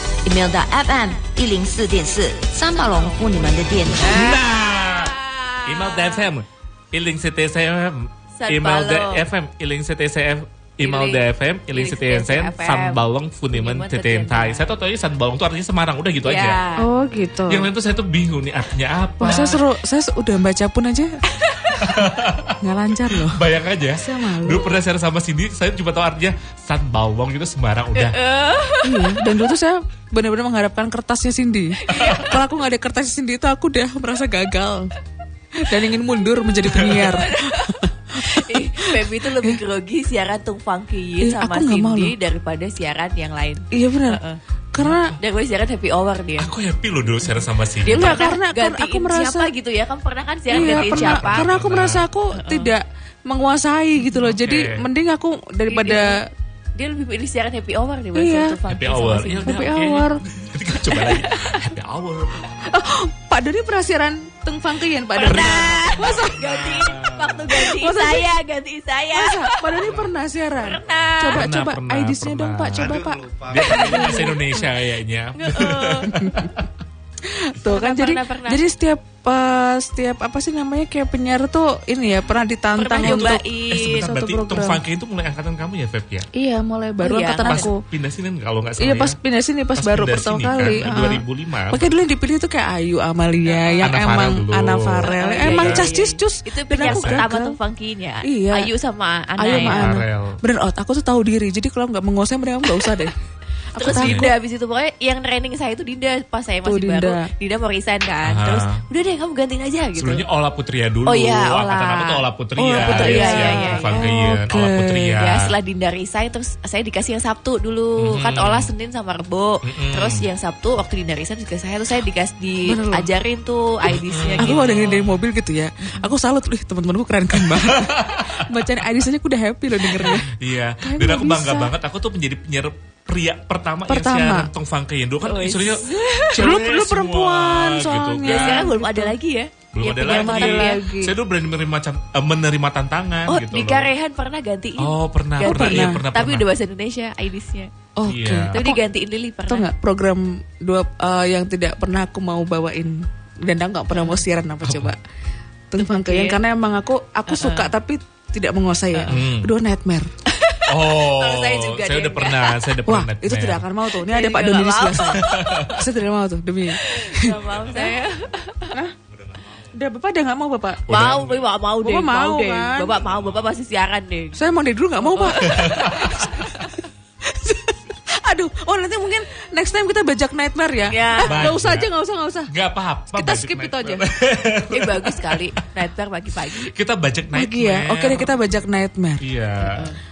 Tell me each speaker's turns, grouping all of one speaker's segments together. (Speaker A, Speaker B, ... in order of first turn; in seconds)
Speaker A: 0.2-4.4
Speaker B: 2.7-3.3, 3.9-6.3, 8.4-9.2, 10.8-14.7, 16.2-16.9, 27.9-29.2, 31.8-32.3, 36.8-44.4, 45.2-46.5, 47.8-51.5, 52.3-52.7, 55.7-56.2, 56.8-59.7, 65.1-69.9, 70.6-71.4, 75.3-76.1, 77.6-78.6, 82.8-84.1, 87.0-87.7, 93.5-93.9, 95.0-99.9, 103.8-110.2, 111.0-112.2, 112.7-114.1, 115.2-125.0, 135.2-136.5, 138.2-140.8, 143.3-147.7, 148.5-149.7, 153.9-154.2, 155.8-156.4, 157.3-157.7, 160.3-162.6, 163.9-165.7, 166.7-168.8, 170.9-174.5, 175.0-175.5, 180.9-181.5, 184.7-186.7, 189.6-190.0
Speaker C: 4.0-16.6, 17.5-19.6, 21.8-28.2, 31.9-32.2, 36.7-37.1, 44.8-45.1, 46.4-48.2, 50.5-52.1, 54.1-54.9, 58.7-62.5, 65.2-67.5, 71.3-76.7, 83.0-86.3, 87.5-89.2, 89.8-91.9, 93.8-95.9, 96.8-97.2, 99.5-100.4, 103.8-104.3, 108.2-108.8, 110.0-115.5, 118.0-118.7, 119.6-120.2, 123.9-125.1, 127.3-128.3, 129.8-138.7, 139.7-143.9, 144.8-146.5, 148.1-148.6, 154.6-154.9, 159.1-159.5, 160.7-163.6, 165.2-165.8, 167.3-168.0, 169.1-169.6, 170.9-171.5, 173.0-173.5, 175.4-176.5, 181.0-181.9, 182.5-185.6, 186.5-188.3, 189.2-189.9
Speaker D: 16.8-17.7, 19.2-21.2, 21.7-22.1, 22.6-23.4, 23.9-24.6, 28.8-34.9, 35.5-39.6, 41.2-42.1, 43.7-44.2, 44.7-45.1, 47.9-49.5, 50.5-56.2, 58.1-58.5, 59.5-60.2, 62.6-66.3, 67.5-68.3, 69.1-74.4, 76.1-76.5, 77.2-83.4, 83.9-84.8, 86.3-87.8, 88.8-97.5, 98.2-98.7, 99.4-103.1, 103.8-104.3, 106.6-107.3, 112.6-115.2, 122.7-123.1, 124.4-131.7, 133.9-134.5, 136.3-139.1, 140.0-141.1, 145.4-146.0, 148.0-148.8, 149.5-155.0, 155.7-160.1, 162.9-167.3, 169.7-170.8, 171.8-172.9, 174.3-182.5, 183.1-184.0, 187.3-189.2